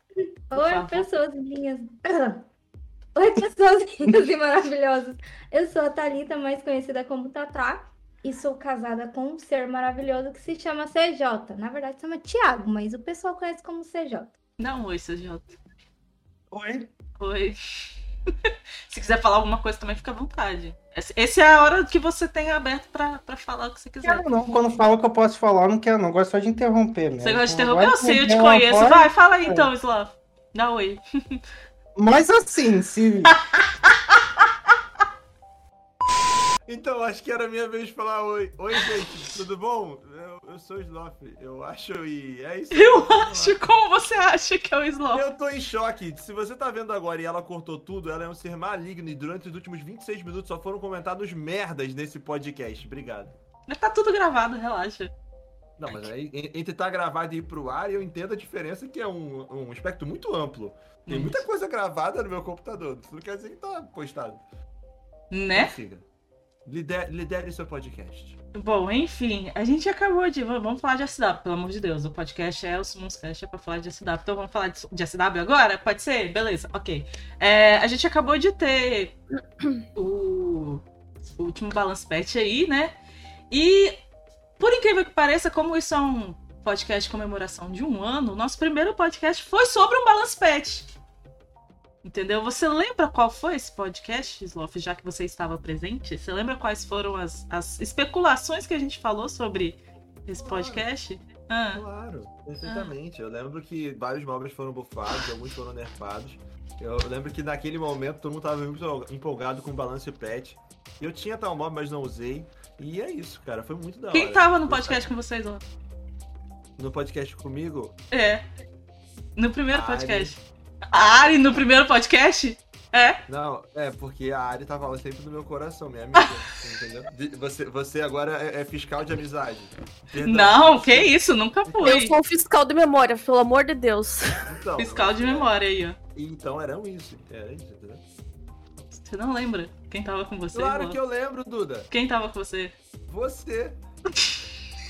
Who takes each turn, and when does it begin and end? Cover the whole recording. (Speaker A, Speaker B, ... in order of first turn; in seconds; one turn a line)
Speaker A: 0.5-2.5
Speaker B: 0.5-1.1
Speaker A: 3.1-14.3
Speaker B: 14.6-15.6
Speaker C: 16.5-16.9
Speaker B: 17.2-17.6
Speaker B: 18.4-24.3
Speaker C: 24.0-29.7
Speaker B: 27.2-31.4
Speaker C: 31.9-33.4
Speaker D: 36.7-43.6
Speaker B: 42.7-45.2
Speaker D: 45.1-53.3
Speaker B: 53.7-55.1
Speaker D: 55.8-64.4
Speaker B: 61.1-61.4
Speaker B: 65.3-65.8
Speaker D: 65.5-66.0
Speaker D: 66.7-68.4
Speaker B: 68.5-79.2
Speaker B: 79.9-80.8
Speaker B: 81.4-82.9
Speaker B: 83.5-84.0
Speaker B: 84.6-90.9
Speaker B: 92.0-101.8
Speaker D: 100.4-100.8
Speaker D: 101.7-115.1
Speaker B: 102.6-102.9
Speaker B: 114.1-115.6
Speaker D: 116.8-118.0
Speaker B: 118.1-118.4
Speaker B: 119.3-120.4
Speaker D: 119.7-120.4
Speaker B: 120.9-123.2
Speaker D: 120.9-121.7
Speaker D: 123.3-131.1
Speaker B: 130.2-132.2
Speaker D: 131.7-132.0
Speaker E: 131.8-134.5
Speaker D: 134.4-135.5
Speaker B: 134.8-136.0
Speaker D: 136.1-138.0
Speaker B: 138.9-141.0
Speaker D: 140.5-141.9
Speaker B: 141.9-142.7
Speaker D: 143.1-143.8